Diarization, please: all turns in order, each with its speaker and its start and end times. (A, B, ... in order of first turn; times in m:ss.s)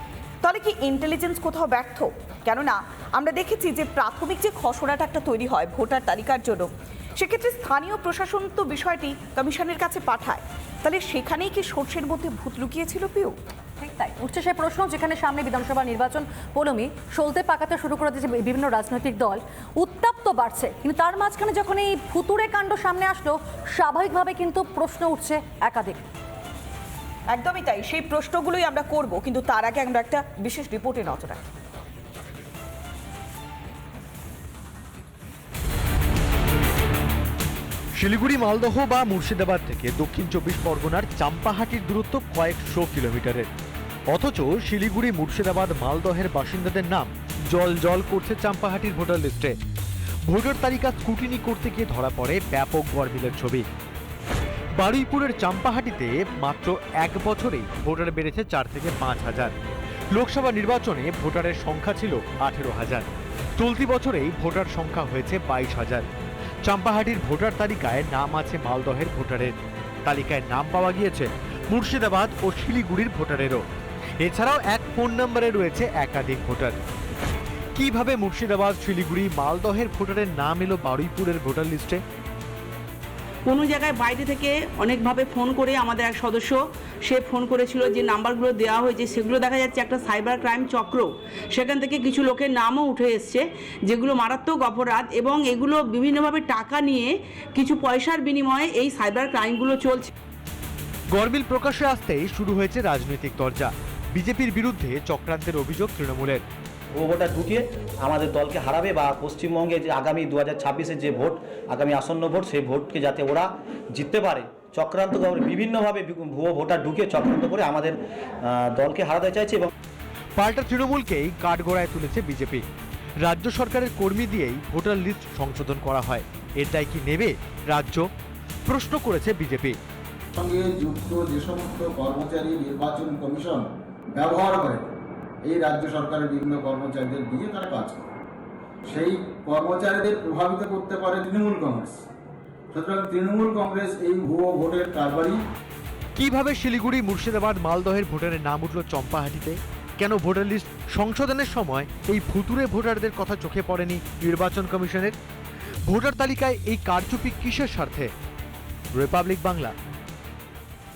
0:00.4-0:13.3 A
0:13.8-0:26.0 B
0:27.3-0:31.4 A
0:38.0-0:43.5 C
0:44.1-0:49.6 C
0:50.2-0:53.6 C
0:54.8-0:59.5 C
1:00.1-1:06.1 C
1:06.6-1:13.6 C
1:14.2-1:16.8 C
1:17.7-1:22.0 C
1:23.4-1:40.1 D
1:41.1-1:46.4 C
1:47.0-1:59.7 E
2:00.4-2:02.6 C
2:03.2-2:08.1 C
2:08.7-2:09.8 C
2:10.3-2:14.9 F
2:15.4-2:18.1 F
2:18.9-2:22.0 F
2:22.7-2:25.4 F
2:26.2-2:35.1 C
2:35.9-2:38.1 C
2:39.0-2:39.7 C